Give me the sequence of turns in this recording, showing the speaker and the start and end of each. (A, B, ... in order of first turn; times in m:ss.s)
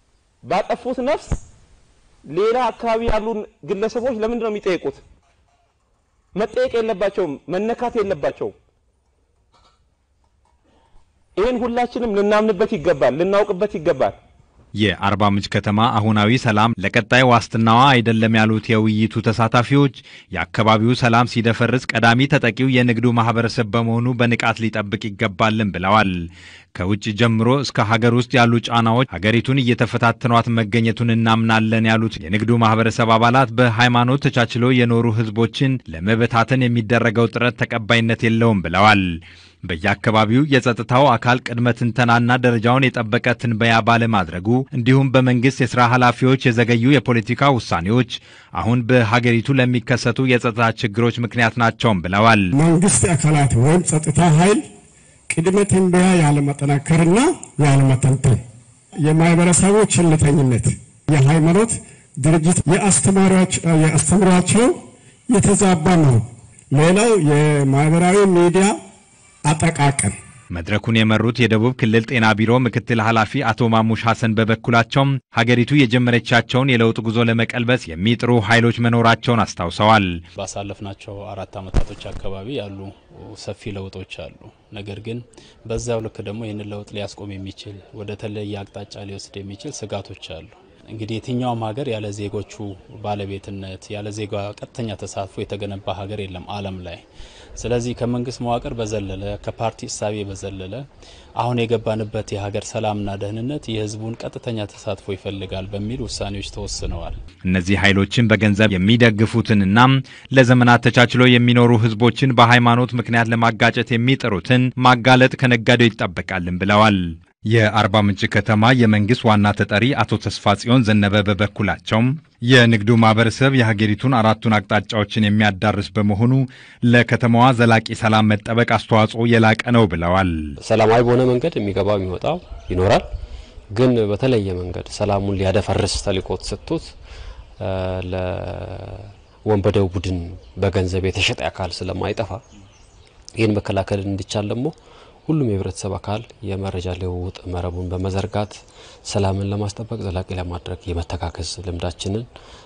0:00.4-0:01.4 A
0:02.3-0:05.0 A
0:06.3-0:08.5 A
0:11.4-0:14.2 A
0:14.8-0:52.5 B
0:52.5-0:54.6 C
0:55.3-0:58.4 C
0:59.0-1:04.8 C
1:05.3-1:08.8 C
1:09.5-1:10.2 C
1:10.5-1:20.2 B
1:20.4-1:37.0 D
1:37.6-1:40.8 D
1:41.4-1:47.2 D
1:47.4-2:10.6 B
2:10.6-2:13.0 E
2:13.7-2:16.9 E
2:17.6-2:22.4 E
2:23.4-2:24.7 E
2:25.2-2:32.3 E